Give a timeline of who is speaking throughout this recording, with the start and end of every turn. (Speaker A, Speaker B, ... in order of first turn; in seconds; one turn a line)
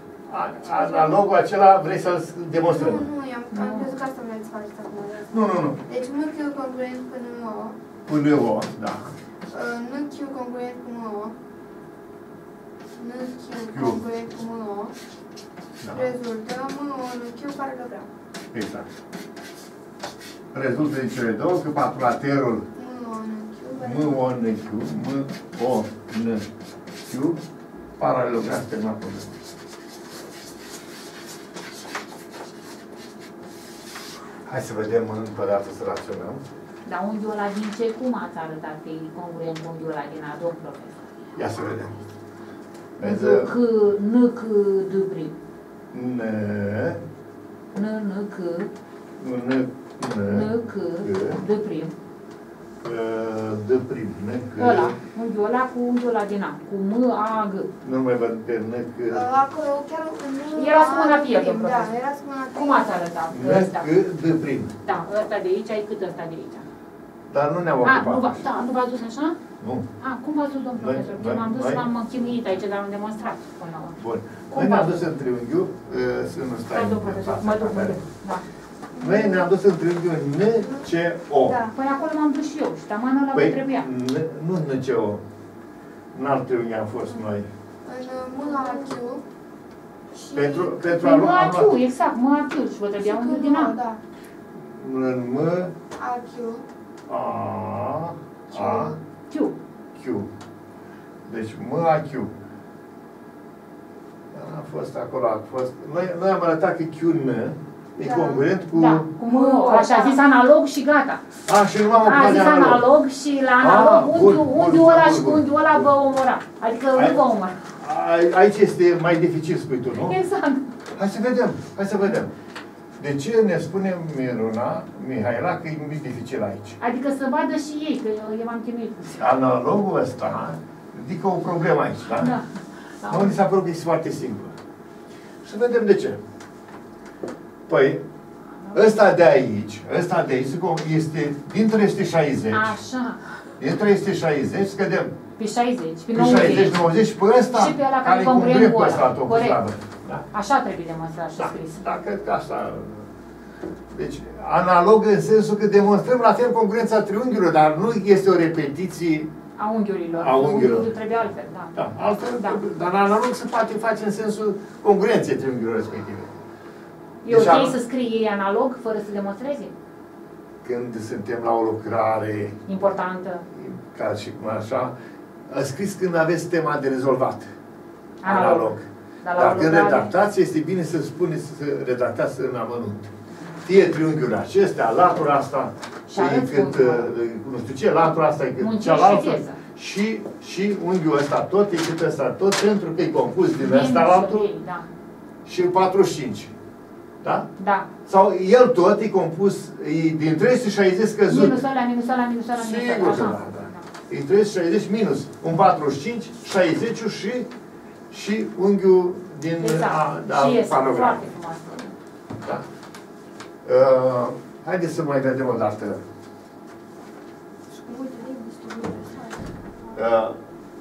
Speaker A: 0.3-3.1
Speaker B: 0.8-1.2
Speaker B: 2.7-5.3
Speaker C: 3.5-3.9
Speaker A: 5.3-5.8
Speaker B: 5.9-7.8
Speaker A: 8.1-9.1
Speaker B: 9.5-11.4
Speaker B: 13.0-14.9
Speaker A: 13.6-14.0
Speaker A: 15.8-16.1
Speaker B: 15.9-18.1
Speaker A: 18.5-18.9
Speaker A: 20.5-22.7
Speaker B: 22.8-24.2
Speaker A: 23.8-26.4
Speaker A: 27.1-27.4
Speaker A: 28.0-29.3
Speaker A: 34.5-36.4
Speaker C: 36.9-41.0
Speaker A: 41.4-41.9
Speaker A: 43.0-43.5
Speaker C: 43.0-45.4
Speaker A: 45.9-47.0
Speaker C: 47.7-48.7
Speaker A: 49.2-50.5
Speaker C: 50.2-51.9
Speaker A: 51.0-51.4
Speaker A: 52.8-55.0
Speaker C: 54.6-57.7
Speaker A: 57.8-59.3
Speaker B: 59.1-62.9
Speaker C: 60.6-61.9
Speaker C: 62.5-63.9
Speaker A: 63.3-64.7
Speaker C: 64.8-66.7
Speaker A: 67.3-68.5
Speaker C: 67.8-69.4
Speaker A: 69.6-69.9
Speaker C: 70.0-74.0
Speaker A: 70.8-71.8
Speaker A: 74.0-78.0
Speaker C: 74.5-75.0
Speaker C: 76.7-78.4
Speaker B: 78.9-79.5
Speaker A: 79.0-81.6
Speaker B: 81.5-81.7
Speaker C: 81.7-83.9
Speaker A: 83.3-85.2
Speaker A: 86.1-87.5
Speaker B: 87.8-89.2
Speaker B: 90.1-90.8
Speaker A: 90.3-91.7
Speaker C: 90.9-93.8
Speaker B: 93.0-94.0
Speaker A: 94.5-95.7
Speaker B: 96.0-96.7
Speaker A: 97.1-99.0
Speaker C: 98.5-99.5
Speaker A: 100.0-100.3
Speaker A: 101.3-102.3
Speaker A: 104.3-109.1
Speaker B: 108.0-108.5
Speaker C: 108.7-111.2
Speaker B: 109.2-110.2
Speaker A: 111.5-112.8
Speaker C: 112.0-117.6
Speaker A: 113.6-115.9
Speaker A: 116.9-117.2
Speaker A: 117.8-120.2
Speaker C: 119.9-120.7
Speaker A: 121.0-122.3
Speaker A: 123.0-126.8
Speaker C: 126.8-129.2
Speaker A: 129.2-132.4
Speaker C: 132.1-132.5
Speaker C: 133.0-133.4
Speaker A: 133.1-134.6
Speaker A: 135.4-136.2
Speaker A: 137.7-138.0
Speaker A: 138.7-142.8
Speaker C: 142.5-143.2
Speaker A: 143.6-145.2
Speaker C: 145.4-146.8
Speaker A: 146.1-150.2
Speaker C: 147.6-149.6
Speaker C: 150.3-151.8
Speaker A: 151.4-153.1
Speaker A: 153.9-159.3
Speaker C: 159.6-161.8
Speaker A: 160.2-160.9
Speaker A: 161.8-166.3
Speaker C: 167.2-169.7
Speaker A: 167.3-167.8
Speaker A: 170.6-172.6
Speaker C: 172.7-173.4
Speaker A: 173.5-174.9
Speaker A: 175.5-177.5
Speaker C: 178.2-180.1
Speaker A: 178.2-178.8
Speaker A: 179.4-183.1
Speaker A: 183.7-194.5
Speaker C: 186.1-187.1
Speaker C: 188.6-189.6
Speaker C: 193.6-194.9
Speaker A: 195.5-196.5
Speaker A: 197.2-197.5
Speaker C: 197.6-197.9
Speaker A: 198.1-201.6
Speaker C: 201.3-203.9
Speaker A: 202.6-207.5
Speaker A: 208.1-211.2
Speaker C: 209.6-211.9
Speaker A: 212.4-212.6
Speaker A: 213.7-216.0
Speaker B: 217.7-219.5
Speaker A: 219.9-220.4